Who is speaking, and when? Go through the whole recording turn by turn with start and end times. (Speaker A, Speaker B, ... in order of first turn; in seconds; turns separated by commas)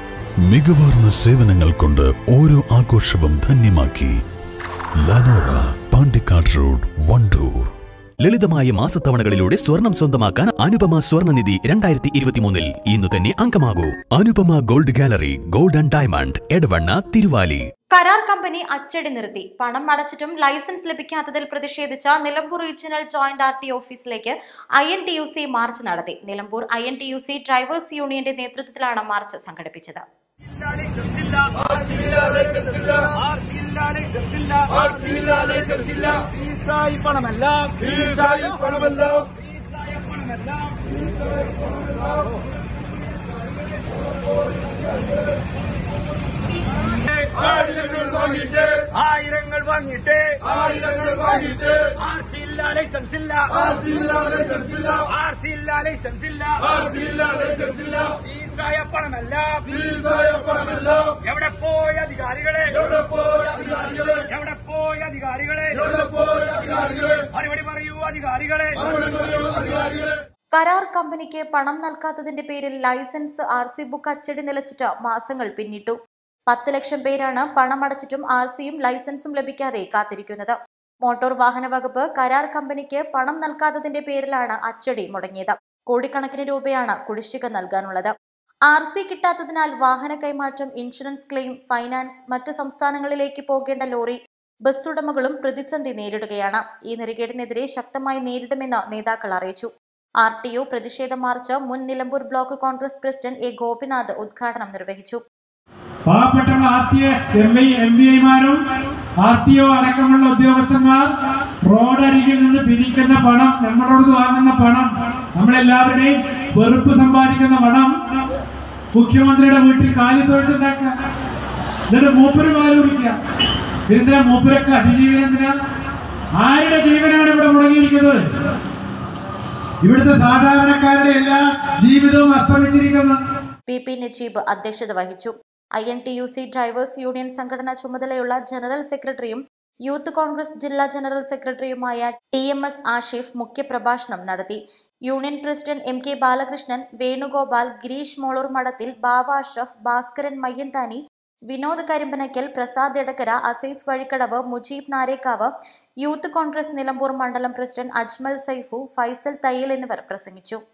Speaker A: 0.5-4.1, Speaker A: 5.0-7.6, Speaker B: 8.2-17.6, Speaker C: 17.9-30.0, Speaker D: 30.7-31.5, Speaker D: 32.7-34.8, Speaker D: 36.6-38.3, Speaker D: 39.8-40.6, Speaker D: 49.0-50.4, Speaker D: 52.0-53.6, Speaker D: 55.0-56.7, Speaker D: 58.1-63.0, Speaker D: 63.9-66.2, Speaker D: 67.1-69.2, Speaker C: 70.5-76.0, Speaker C: 76.5-88.1, Speaker C: 88.7-99.7, Speaker C: 100.2-105.2, Speaker E: 106.1-108.6, Speaker E: 109.2-111.1, Speaker E: 111.7-118.0, Speaker E: 118.9-120.9, Speaker E: 121.9-123.2, Speaker E: 123.9-125.5, Speaker E: 126.4-128.3, Speaker E: 129.8-133.2, Speaker C: 133.7-160.6